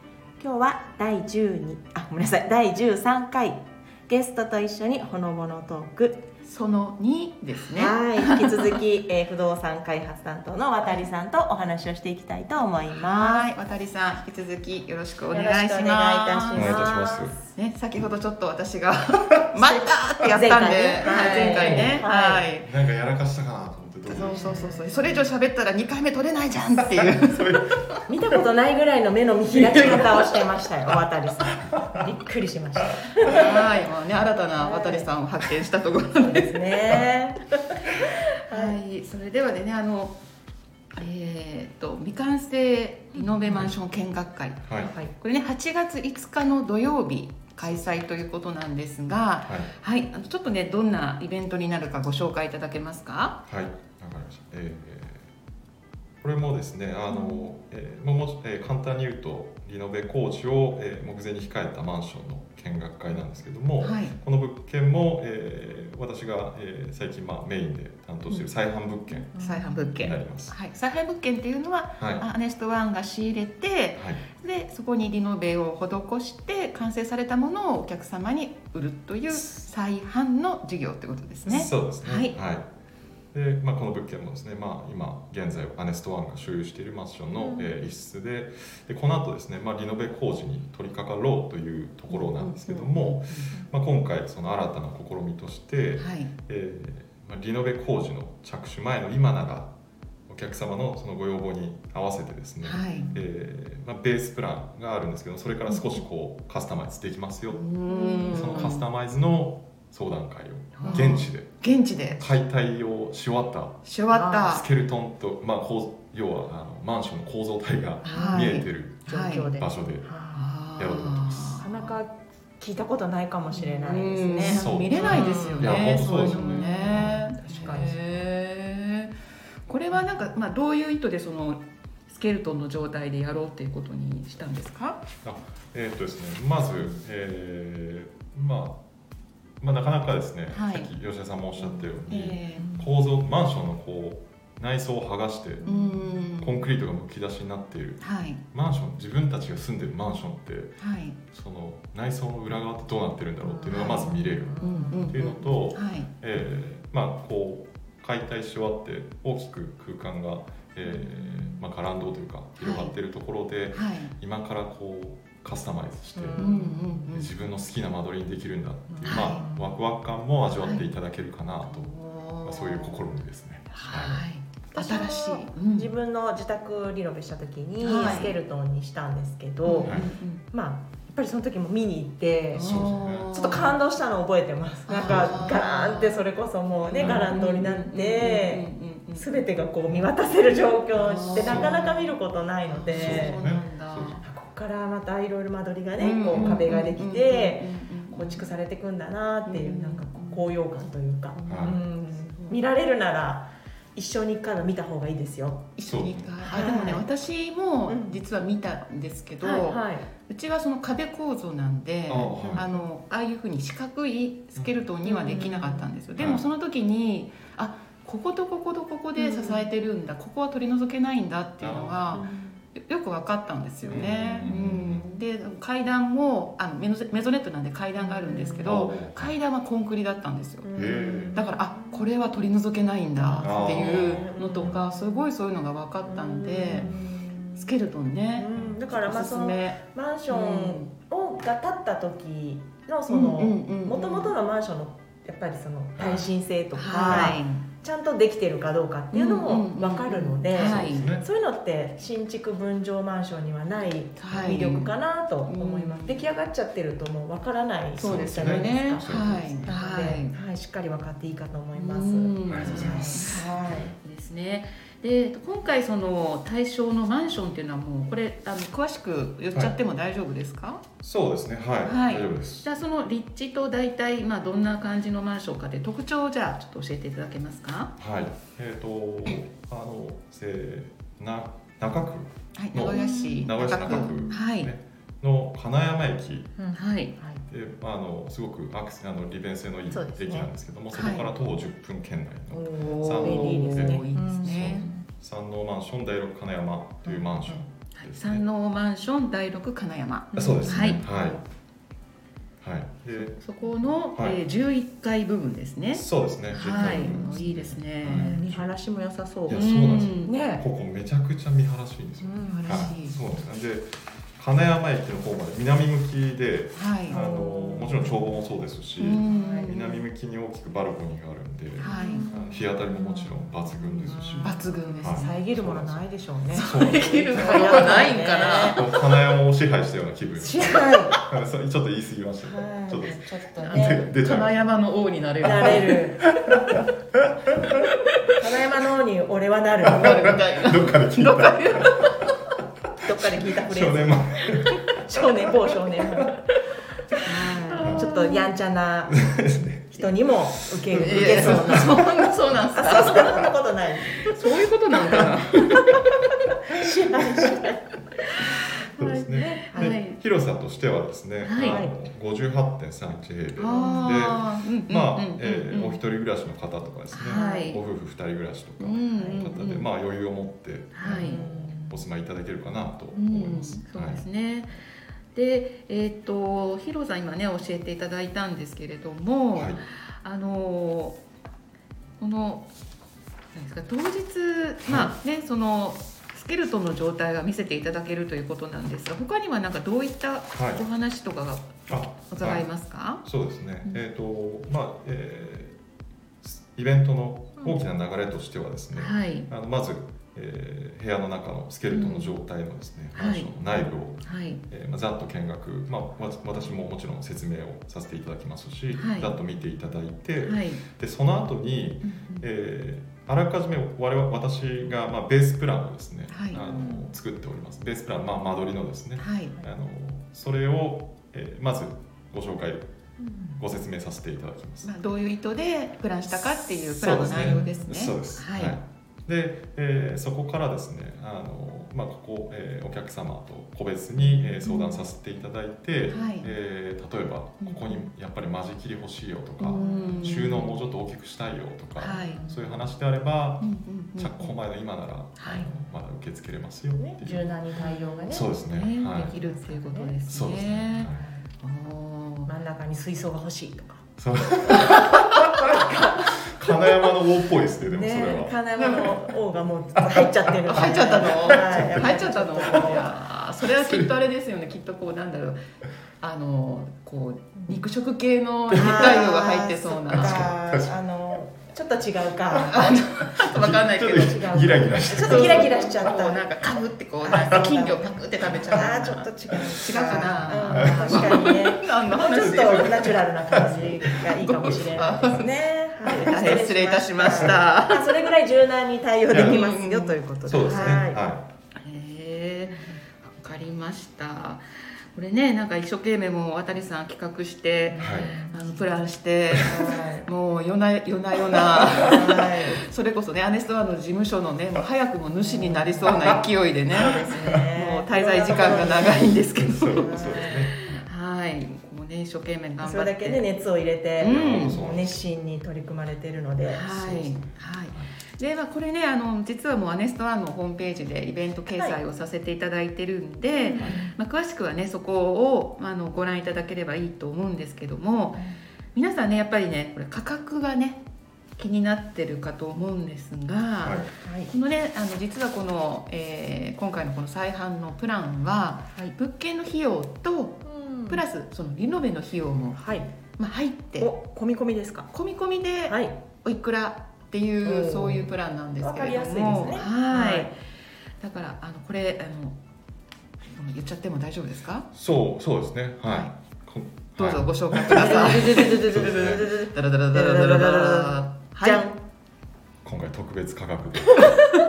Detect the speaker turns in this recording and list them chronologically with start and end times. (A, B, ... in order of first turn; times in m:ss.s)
0:00.4-0:06.2 A
0:06.4-0:08.8 B
0:07.8-0:13.5 A
0:13.0-0:16.8 B
0:15.3-0:17.4 A
0:16.6-0:17.3 C
0:17.6-0:22.7 B
0:19.7-0:22.5 A
0:21.5-0:22.0 C
0:22.6-0:24.7 C
0:24.0-0:27.6 B
0:24.2-0:25.3 A
0:26.8-0:28.4 C
0:28.1-0:33.5 A
0:29.6-0:30.3 C
0:29.7-0:30.2 B
0:31.6-0:32.0 C
0:33.0-0:33.4 C
0:33.2-0:36.8 B
0:34.6-0:35.1 A
0:36.2-0:37.8 A
0:38.5-0:38.8 A
0:38.5-0:40.2 B
0:40.9-0:53.4 B
0:43.2-0:43.6 A
0:44.6-0:44.9 C
0:44.8-0:45.1 A
0:47.6-0:47.9 C
0:49.4-0:49.7 C
0:53.5-0:55.3 C
0:56.2-1:10.6 C
0:57.1-0:57.5 B
1:03.8-1:04.2 B
1:09.3-1:22.3 B
1:09.4-1:10.0 A
1:12.0-1:12.2 C
1:14.0-1:14.2 C
1:21.4-1:22.7 C
1:23.3-1:39.7 C
1:32.1-1:33.5 B
1:36.0-1:36.3 B
1:40.3-1:47.7 C
1:42.6-1:43.2 B
1:45.7-1:46.0 B
1:47.5-1:48.9 B
1:47.9-1:48.6 A
1:48.3-1:51.5 C
1:50.8-1:52.3 B
1:50.8-1:51.1 A
1:52.2-2:00.1 C
1:53.8-1:54.7 B
1:54.1-1:54.5 A
1:58.0-2:00.6 A
1:58.1-1:59.6 B
2:00.3-2:02.0 B
2:00.8-2:01.6 C
2:01.6-2:06.7 A
2:03.5-2:09.2 B
2:04.4-2:07.3 C
2:07.2-2:08.0 A
2:09.7-2:15.0 B
2:15.2-2:18.8 C
2:19.6-2:25.7 C
2:20.5-2:20.9 B
2:21.7-2:22.7 B
2:25.6-2:26.0 A
2:25.6-2:26.6 B
2:26.2-2:46.6 C
2:28.0-2:28.4 B
2:30.8-2:31.2 B
2:33.4-2:35.2 A
2:33.8-2:34.1 B
2:34.6-2:36.1 B
2:40.8-2:41.6 A
2:42.6-2:42.9 B
2:43.7-2:44.1 B
2:46.1-2:47.1 A
2:46.4-2:47.3 B
2:47.1-2:51.9 C
2:48.9-2:49.7 A
2:49.0-2:49.4 B
2:50.6-2:50.9 B
2:51.7-2:53.0 B
2:52.4-2:54.2 C
2:53.7-2:55.9 B
2:54.7-3:13.4 A
2:57.8-2:58.3 B
2:59.6-3:00.4 B
3:02.5-3:03.8 B
3:02.6-3:03.3 C
3:04.9-3:06.2 B
3:05.0-3:05.6 C
3:06.9-3:09.3 B
3:07.0-3:07.4 C
3:11.0-3:12.2 B
3:11.4-3:11.8 C
3:12.7-3:14.2 B
3:12.9-3:14.2 C
3:14.2-3:25.8 A
3:16.0-3:18.5 B
3:16.4-3:16.6 C
3:19.4-3:20.5 B
3:21.3-3:22.6 B
3:21.5-3:21.8 C
3:25.8-3:50.7 B
3:25.9-3:26.6 C
3:26.4-3:27.0 A
3:27.9-3:28.2 A
3:29.4-3:30.1 A
3:32.1-3:32.7 C
3:32.3-3:32.9 A
3:34.6-3:34.8 C
3:35.1-3:35.9 A
3:36.2-3:36.4 C
3:39.2-3:39.7 A
3:41.6-3:42.3 C
3:42.1-3:42.6 A
3:43.9-3:45.1 C
3:48.0-3:48.8 A
3:48.6-3:49.3 C
3:50.6-3:52.1 A
3:50.8-3:51.4 C
3:51.3-3:56.9 B
3:53.3-3:55.2 A
3:53.4-3:54.8 C
3:56.1-3:57.8 A
3:56.7-3:57.0 C
3:57.6-4:00.9 B
3:58.4-4:23.9 A
3:58.5-3:58.8 C
4:03.1-4:04.4 B
4:06.0-4:06.3 C
4:06.8-4:07.7 B
4:07.1-4:07.4 C
4:09.1-4:11.2 B
4:10.5-4:11.3 C
4:14.2-4:16.2 B
4:14.3-4:14.6 C
4:18.0-4:20.3 B
4:18.0-4:19.8 C
4:21.8-4:23.5 B
4:22.5-4:24.0 C
4:24.0-4:30.8 B
4:31.0-4:32.7 C
4:31.8-4:38.0 B
4:38.0-4:46.6 C
4:42.5-4:44.7 B
4:42.8-4:44.4 A
4:46.6-4:47.4 A
4:46.7-4:47.2 B
4:47.5-4:58.4 C
4:49.9-4:50.5 A
4:50.9-4:51.3 B
4:52.5-4:55.1 A
4:52.7-4:54.9 B
4:57.0-4:57.6 A
4:58.0-5:01.0 B
5:00.3-5:01.4 A
5:00.4-5:01.4 C
5:02.6-5:03.4 C
5:03.3-5:08.4 B
5:04.2-5:04.4 C
5:05.9-5:08.7 C
5:06.8-5:07.4 A
5:08.1-5:09.7 A
5:09.5-5:27.9 C
5:09.5-5:10.4 B
5:10.2-5:10.7 A
5:12.2-5:13.0 A
5:12.5-5:13.2 B
5:16.8-5:17.2 B
5:17.1-5:18.2 A
5:19.0-5:20.0 B
5:19.3-5:20.0 A
5:21.8-5:22.3 B
5:21.9-5:28.9 A
5:24.4-5:25.4 B
5:26.5-5:28.8 B
5:28.7-5:34.7 C
5:30.4-5:31.2 A
5:30.7-5:31.1 B
5:32.4-5:34.1 A
5:33.6-5:36.0 B
5:35.4-5:36.4 A
5:35.5-5:37.8 C
5:37.8-5:38.1 B
5:38.4-5:40.4 A
5:39.8-5:42.4 B
5:39.9-5:42.3 C
5:43.0-5:44.4 A
5:43.4-5:45.3 C
5:45.0-5:46.4 A
5:47.2-5:49.2 A
5:47.4-5:48.5 B
5:47.8-5:48.1 C
5:49.1-5:52.2 C
5:49.9-5:52.0 A
5:50.9-5:53.5 B
5:52.7-5:54.6 A
5:54.1-5:56.2 B
5:56.7-5:57.8 A
5:56.8-5:57.6 C
5:59.0-6:14.2 C
5:59.0-6:00.0 A
5:59.4-6:00.2 B
6:01.4-6:01.8 B
6:01.6-6:01.9 A
6:03.6-6:06.0 B
6:03.7-6:04.2 A
6:07.1-6:07.8 B
6:07.3-6:07.7 A
6:08.8-6:09.9 B
6:10.9-6:11.4 B
6:11.1-6:12.0 A
6:13.2-6:21.2 B
6:19.6-6:19.8 C
6:22.2-6:22.7 B
6:23.5-6:33.2 B
6:24.9-6:25.1 C
6:30.5-6:30.8 C
6:31.9-6:35.8 C
6:36.4-7:02.8 C
6:38.9-6:39.5 B
6:41.9-6:42.4 B
6:43.2-6:43.5 B
6:44.2-6:44.6 B
6:49.0-6:49.4 B
6:50.4-6:50.8 B
6:52.0-6:52.5 B
6:56.3-6:56.6 B
6:56.6-6:57.1 A
6:59.2-6:59.5 B
7:03.2-7:03.6 A
7:03.6-7:04.9 C
7:04.8-7:08.8 B
7:06.9-7:27.5 C
7:07.4-7:07.8 A
7:14.6-7:15.0 B
7:16.1-7:16.5 B
7:17.6-7:18.0 B
7:19.6-7:20.8 B
7:19.7-7:20.4 A
7:22.0-7:22.4 B
7:22.4-7:22.7 A
7:23.6-7:24.6 B
7:25.4-7:25.7 B
7:25.5-7:25.9 A
7:27.0-7:28.5 A
7:27.8-7:31.1 B
7:28.3-7:29.4 C
7:29.3-7:30.2 A
7:30.3-7:31.2 C
7:31.1-7:31.5 A
7:31.6-7:32.5 B
7:32.5-7:34.1 A
7:34.2-7:35.7 C
7:35.6-7:37.0 A
7:36.4-7:38.6 C
7:37.8-7:43.2 A
7:38.8-7:39.2 B
7:40.6-7:42.1 C
7:40.7-7:45.6 B
7:43.6-7:44.1 C
7:46.2-7:50.5 B
7:48.7-7:53.0 A
7:50.1-7:51.0 C
7:52.5-8:03.2 B
7:53.3-7:55.9 C
7:54.1-7:56.5 A
7:57.2-8:11.2 A
7:59.5-8:01.7 C
8:02.3-8:05.5 C
8:04.6-8:08.3 B
8:06.1-8:06.4 C
8:09.3-8:09.6 C
8:09.3-8:11.1 B
8:10.4-8:11.5 C
8:11.8-8:33.5 B
8:17.9-8:18.6 A
8:18.0-8:18.3 C
8:19.7-8:20.3 A
8:21.7-8:22.8 A
8:25.4-8:26.3 A
8:27.0-8:29.3 A
8:29.6-8:30.8 C
8:30.0-8:30.7 A
8:32.8-8:37.0 A
8:34.2-8:34.8 B
8:34.2-8:35.2 C
8:36.7-8:51.0 B
8:37.0-8:38.1 C
8:41.8-8:42.0 A
8:43.6-8:44.2 A
8:51.6-9:04.1 B
8:53.8-8:54.1 C
8:54.2-8:54.5 A
9:00.6-9:01.2 A
9:02.8-9:03.1 A
9:04.0-9:05.1 A
9:05.1-9:10.6 B
9:05.9-9:06.2 A
9:07.6-9:10.5 A
9:11.2-9:12.6 B
9:13.5-9:14.9 B
9:14.9-9:19.5 C
9:16.1-9:16.3 B
9:17.2-9:21.9 B
9:17.9-9:22.0 A
9:22.8-9:24.4 C